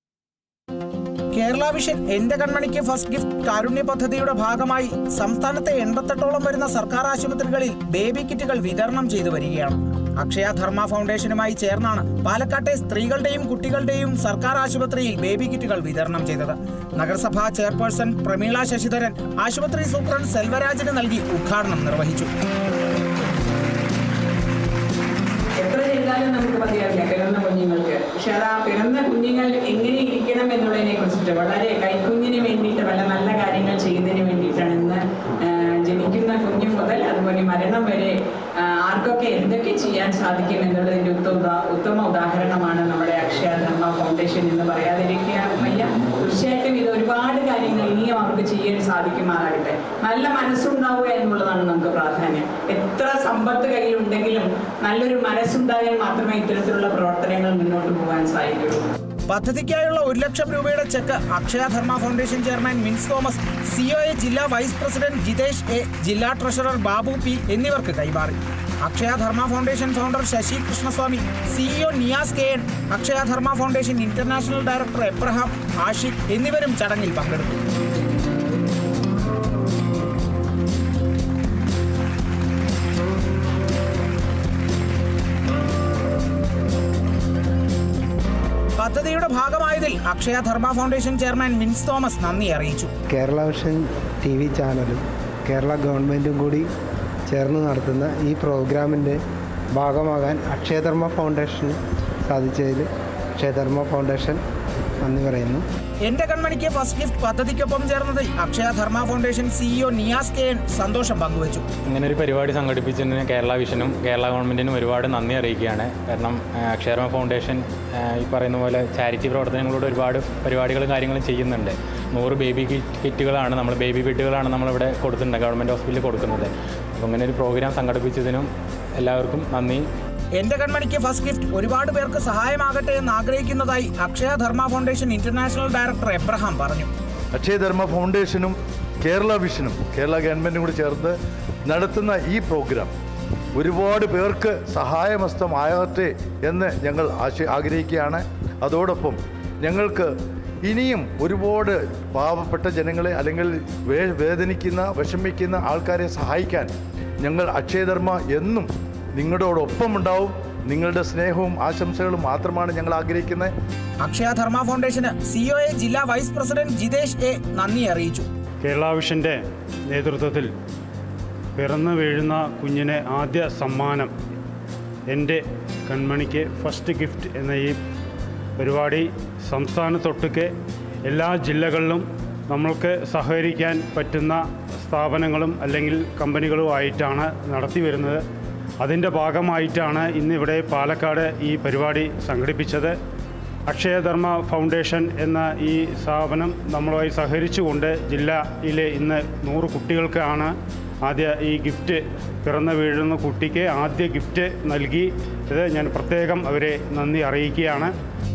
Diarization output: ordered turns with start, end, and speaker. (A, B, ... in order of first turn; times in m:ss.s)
0:01.3-0:22.3 A
0:25.6-0:58.8 B
0:59.3-1:17.6 A
1:28.8-1:32.9 A
1:33.1-1:36.6 C
1:37.3-1:39.2 C
1:39.8-1:41.8 C
1:42.3-1:44.4 C
1:45.0-1:45.6 C
1:46.0-1:51.6 A
1:51.8-2:09.8 D
2:10.4-2:16.9 A
2:17.3-2:22.9 E
2:23.6-2:30.1 E
2:30.6-2:36.7 E
2:37.2-2:43.5 E
2:44.0-2:48.3 A
2:48.6-2:50.5 F
2:51.6-2:54.1 F
2:55.1-2:57.8 F
2:58.6-3:00.5 F
3:01.0-3:08.2 F
3:08.8-3:13.0 F
3:13.7-3:27.9 F